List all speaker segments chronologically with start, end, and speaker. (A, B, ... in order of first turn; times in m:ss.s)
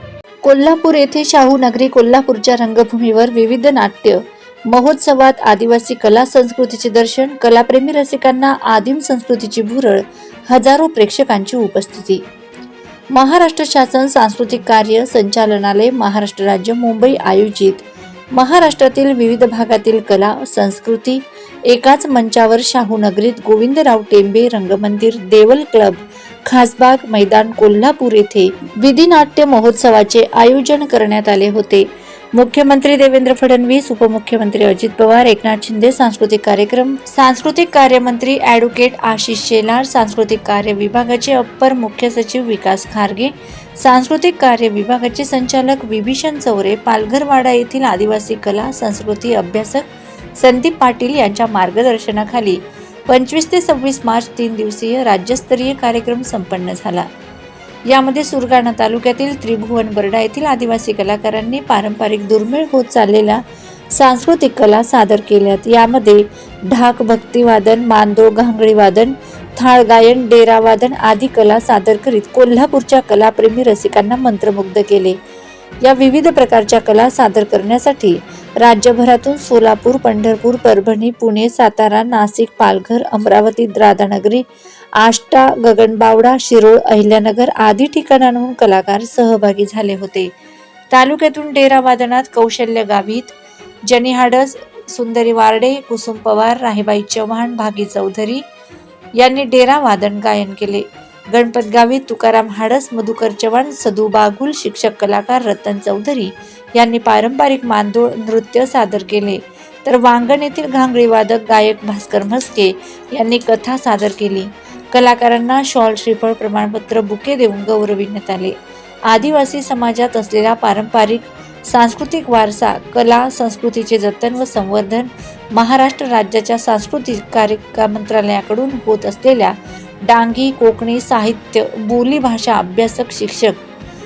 0:00.4-0:12.2 A
0:13.1-0:57.1 A
0:57.9-1:03.4 A
1:03.9-1:15.2 A
1:15.8-1:24.5 A
1:25.0-1:30.3 A
1:30.9-1:33.4 A
1:33.9-1:38.4 A
1:39.2-1:58.6 A
1:59.1-2:13.6 A